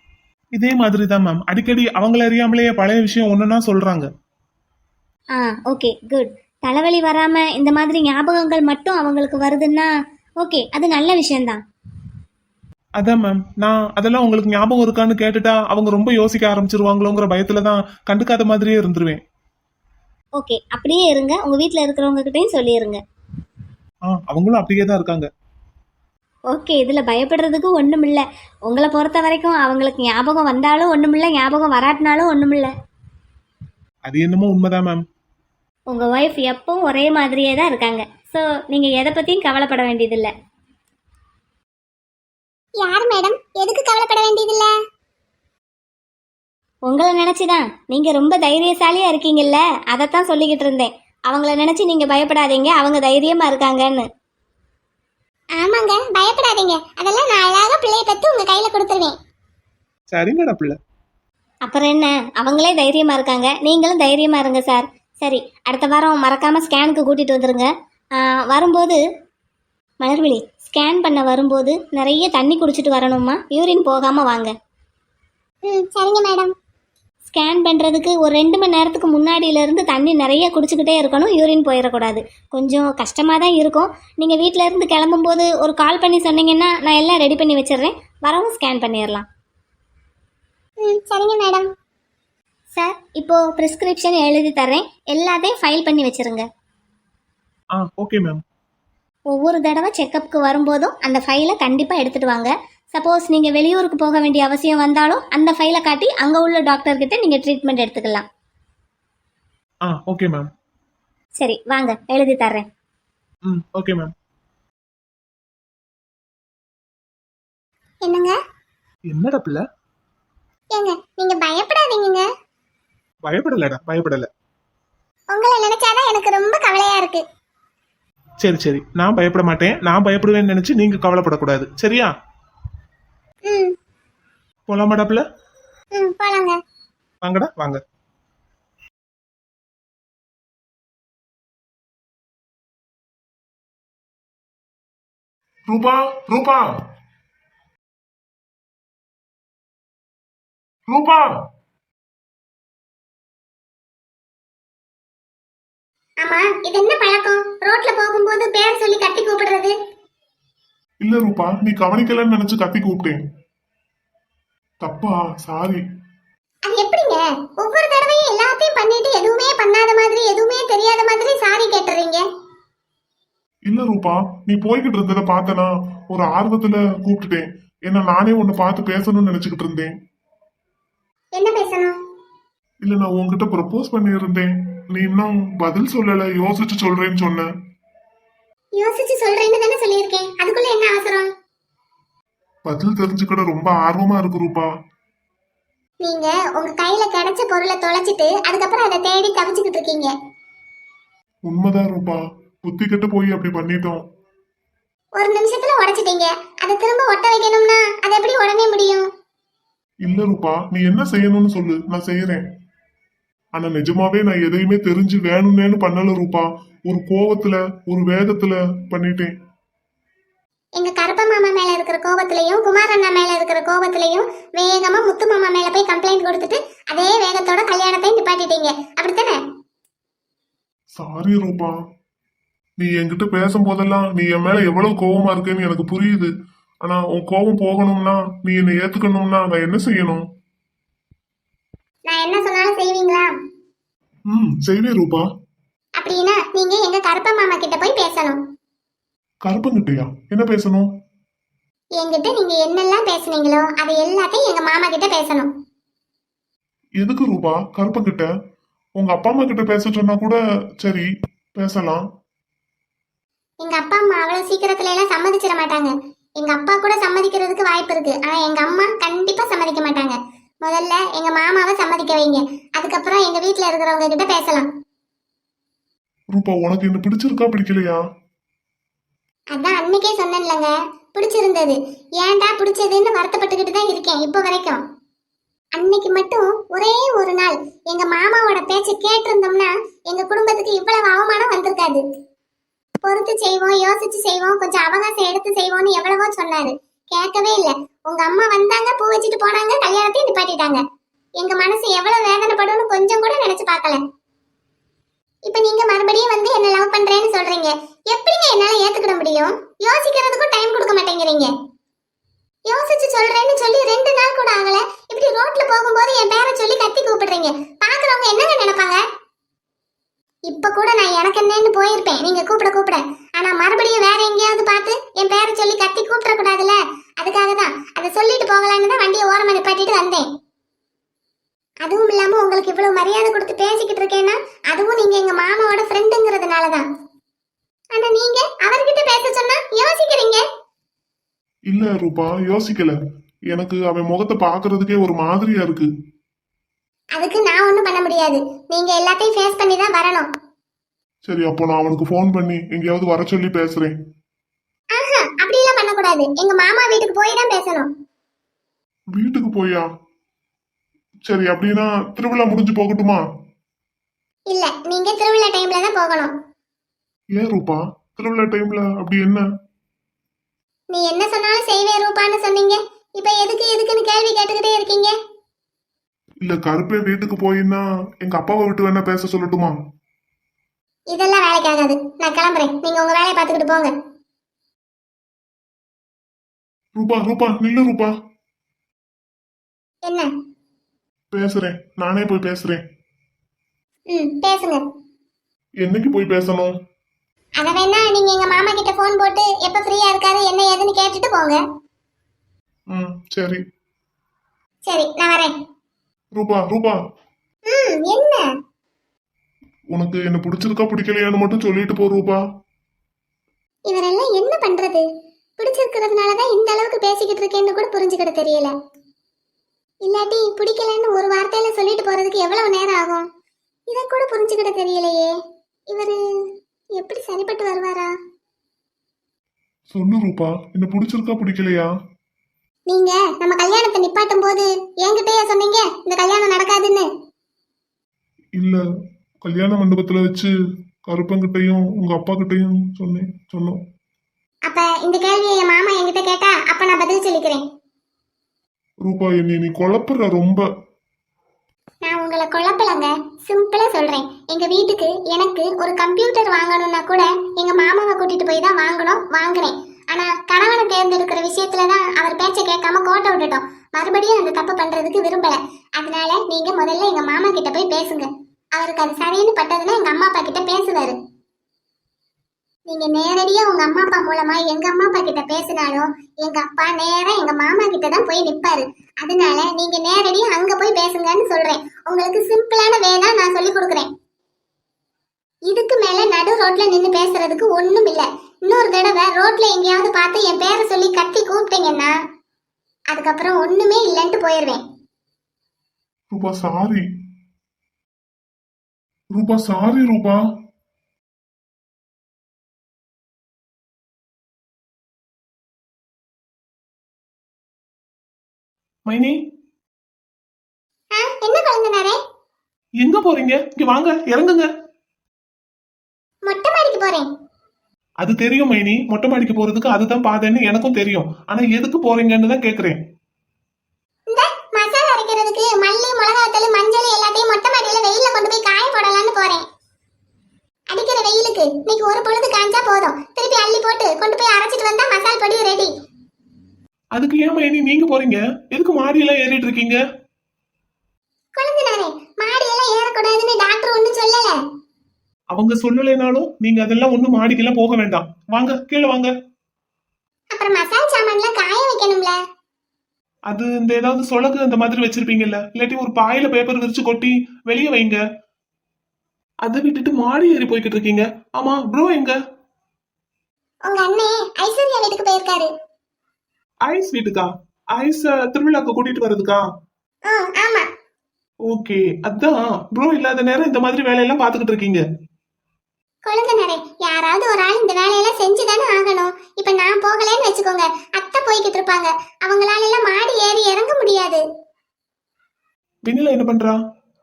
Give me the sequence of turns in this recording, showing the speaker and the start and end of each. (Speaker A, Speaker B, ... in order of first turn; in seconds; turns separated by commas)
Speaker A: 0.6-4.1, Speaker B: 5.3-11.6, Speaker A: 13.0-19.2, Speaker B: 20.4-23.0, Speaker A: 24.1-25.3, Speaker B: 26.5-32.7, Speaker A: 34.1-35.0, Speaker B: 35.9-40.3, Speaker C: 42.8-44.7, Speaker B: 46.9-54.1, Speaker C: 55.6-59.1, Speaker A: 60.1-60.8, Speaker B: 61.7-69.0, Speaker B: 70.0-74.5, Speaker C: 75.7-76.5, Speaker B: 77.3-89.3, Speaker C: 90.8-91.7, Speaker B: 92.8-96.5, Speaker A: 97.8-98.4, Speaker B: 99.3-108.3, Speaker A: 109.9-110.5, Speaker B: 111.4-112.7, Speaker A: 113.5-114.1, Speaker C: 118.0-118.4, Speaker A: 119.1-119.6, Speaker C: 120.7-122.3, Speaker A: 123.2-124.3, Speaker C: 125.3-127.2, Speaker A: 128.4-132.1, Speaker C: 133.4-133.8, Speaker A: 134.7-135.2, Speaker C: 135.9-136.6, Speaker A: 137.2-137.8, Speaker D: 145.7-146.7, Speaker D: 150.9-151.4, Speaker C: 156.2-159.8, Speaker D: 161.0-163.2, Speaker D: 164.8-165.8, Speaker C: 166.7-172.2, Speaker D: 173.7-179.9, Speaker C: 181.4-182.0, Speaker D: 182.8-187.5, Speaker C: 188.8-191.3, Speaker D: 192.7-194.7, Speaker C: 196.0-200.1, Speaker D: 201.5-204.0, Speaker C: 205.2-209.1, Speaker D: 210.1-212.4, Speaker D: 213.6-219.3, Speaker C: 220.8-229.4, Speaker D: 231.0-231.8, Speaker D: 232.8-236.3, Speaker D: 236.8-240.2, Speaker C: 242.1-243.3, Speaker D: 244.3-245.3, Speaker C: 246.0-248.4, Speaker D: 249.4-250.9, Speaker C: 252.0-255.5, Speaker D: 257.0-258.3, Speaker D: 259.0-262.0, Speaker C: 263.6-274.7, Speaker D: 276.4-278.0, Speaker C: 279.5-284.8, Speaker C: 285.8-292.0, Speaker C: 293.0-300.8, Speaker C: 301.4-304.0, Speaker C: 305.5-311.5, Speaker C: 312.7-319.0, Speaker C: 320.5-330.3, Speaker C: 331.8-336.8, Speaker C: 337.9-340.4, Speaker D: 341.7-343.0, Speaker D: 343.5-345.9, Speaker C: 347.2-350.3, Speaker D: 351.3-354.0, Speaker C: 354.9-357.9, Speaker D: 359.2-359.9, Speaker D: 361.3-363.2, Speaker C: 364.5-366.3, Speaker D: 367.4-369.4, Speaker C: 370.9-375.2, Speaker D: 376.4-379.8, Speaker C: 381.1-383.9, Speaker D: 387.0-388.1, Speaker C: 390.1-390.3, Speaker D: 391.3-392.8, Speaker C: 394.1-394.9, Speaker D: 395.8-396.7, Speaker C: 397.6-401.6, Speaker D: 402.9-403.6, Speaker C: 404.9-405.5, Speaker D: 406.4-407.0, Speaker C: 407.7-408.5, Speaker D: 409.9-412.4, Speaker C: 413.9-415.1, Speaker C: 415.6-418.7, Speaker C: 420.0-423.3, Speaker C: 423.9-425.4, Speaker C: 425.9-428.1, Speaker D: 429.9-431.9, Speaker C: 432.9-437.1, Speaker D: 439.4-440.5, Speaker D: 441.1-443.8, Speaker C: 444.7-447.6, Speaker D: 449.1-450.6, Speaker C: 452.1-471.2, Speaker C: 472.9-484.1, Speaker C: 485.7-492.2, Speaker C: 493.1-494.8, Speaker D: 496.3-497.0, Speaker D: 499.4-500.4, Speaker A: 509.1-509.4, Speaker C: 511.1-512.2, Speaker A: 513.0-514.7, Speaker C: 516.5-517.3, Speaker A: 518.2-523.0, Speaker C: 524.3-529.6, Speaker C: 530.9-535.9, Speaker A: 537.1-540.0, Speaker C: 541.6-544.6, Speaker A: 545.5-549.3, Speaker C: 550.5-552.4, Speaker A: 553.5-558.2, Speaker A: 559.6-562.4, Speaker C: 563.9-565.7, Speaker A: 566.9-569.6, Speaker C: 570.3-570.9, Speaker A: 571.7-575.0, Speaker C: 576.3-584.4, Speaker A: 586.1-586.8